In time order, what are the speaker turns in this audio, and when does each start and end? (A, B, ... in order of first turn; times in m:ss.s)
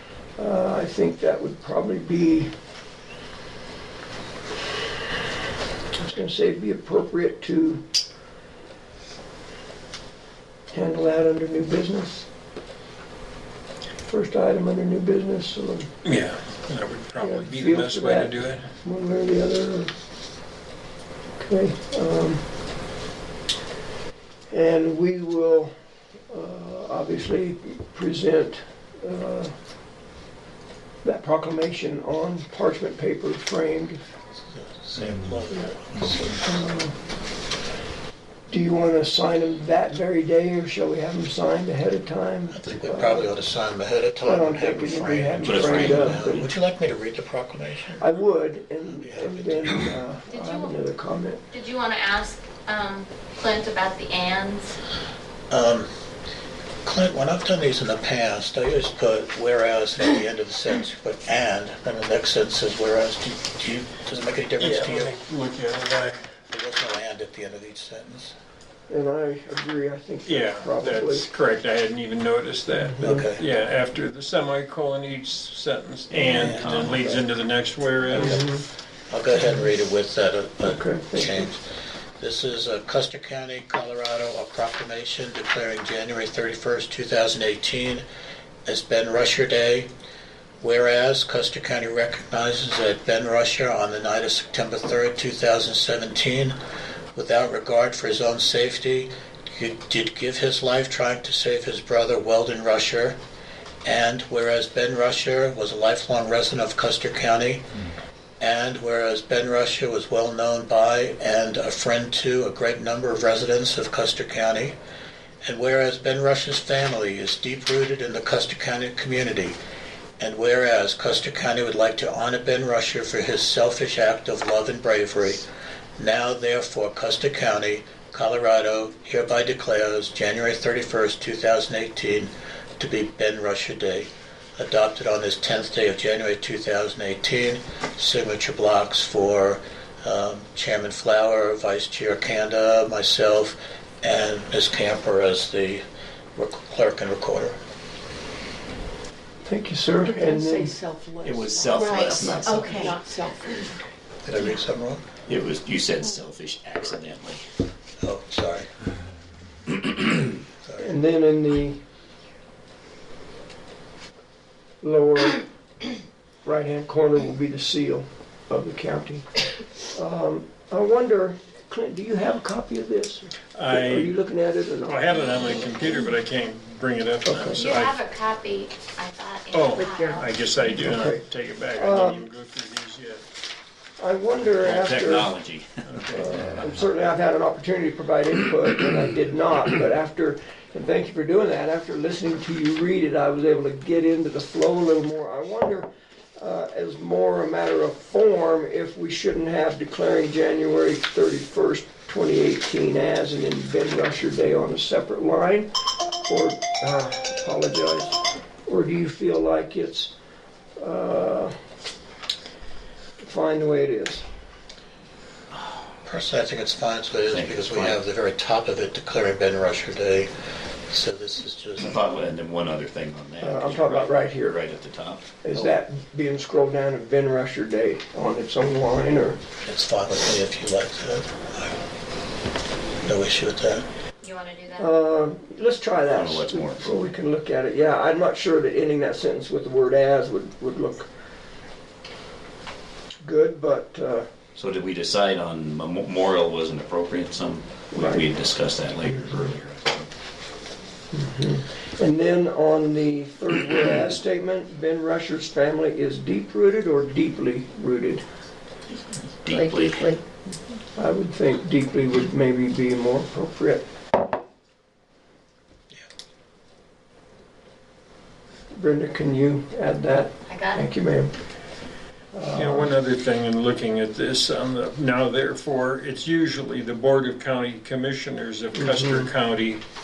0:00.4-0:02.5 A
0:06.0-0:07.8 A
0:10.7-0:12.3 A
0:14.1-0:15.9 A
0:16.0-0:18.7 B
0:17.2-0:19.9 A
0:21.4-0:22.4 A
0:24.5-0:25.7 A
0:26.3-0:29.5 A
0:31.0-0:34.0 A
0:34.5-0:36.5 C
0:35.5-0:36.9 A
0:38.5-0:43.3 A
0:42.5-0:48.0 C
0:44.2-0:46.4 A
0:45.4-0:46.4 D
0:48.0-0:51.4 A
0:49.0-0:49.9 C
0:50.3-0:50.7 E
0:51.5-0:54.7 E
0:55.5-0:55.9 C
0:56.8-1:05.2 C
1:04.6-1:06.3 B
1:06.4-1:08.3 C
1:08.9-1:11.3 A
1:10.2-1:18.5 B
1:12.7-1:13.2 A
1:13.0-1:13.4 C
1:16.1-1:17.2 D
1:16.2-1:16.7 C
1:18.1-1:18.4 C
1:18.1-1:18.6 A
1:19.1-1:21.6 C
1:20.6-1:21.5 A
1:22.2-1:28.0 C
1:28.6-1:29.9 C
1:30.6-1:36.6 C
1:37.1-1:43.2 C
1:43.8-1:47.6 C
1:48.4-1:54.8 C
1:55.4-1:59.6 C
2:00.2-2:05.5 C
2:06.0-2:25.8 C
2:26.4-2:27.6 C
2:29.4-2:30.8 A
2:30.0-2:33.7 F
2:31.2-2:32.9 D
2:31.9-2:33.0 E
2:34.2-2:35.0 C
2:35.3-2:37.4 D
2:38.0-2:38.7 C
2:40.6-2:41.0 C
2:40.8-2:41.8 A
2:44.8-2:45.4 A
2:46.4-2:49.3 A
2:49.8-2:55.2 A
2:53.6-2:54.1 B
2:54.8-2:58.0 B
2:57.2-2:57.6 A
2:57.5-3:00.9 E
2:59.5-3:03.2 B
2:59.8-3:00.1 F
3:00.8-3:02.3 A
3:04.0-3:05.3 A
3:04.5-3:05.8 D
3:05.8-3:06.4 B
3:06.1-3:25.7 A
3:26.3-3:30.1 A
3:30.8-3:31.5 A
3:33.2-3:34.2 A
3:36.0-3:40.3 C
3:37.3-3:38.0 D
3:40.9-3:42.0 C
3:41.8-3:45.3 D
3:43.4-3:44.6 A
3:45.4-3:49.4 A
3:49.6-3:51.8 C
3:53.0-3:53.8 C
3:54.2-3:54.9 E
3:54.7-4:01.1 A
3:56.1-3:56.9 D
4:03.2-4:04.3 A
4:04.6-4:10.1 D
4:07.9-4:08.3 A
4:11.1-4:18.2 A
4:19.4-4:20.1 D
4:19.5-4:20.2 F
4:20.9-4:23.9 A
4:28.7-4:31.3 A
4:30.5-4:30.8 E
4:32.3-4:33.0 A
4:32.5-4:39.8 B
4:38.7-4:39.3 A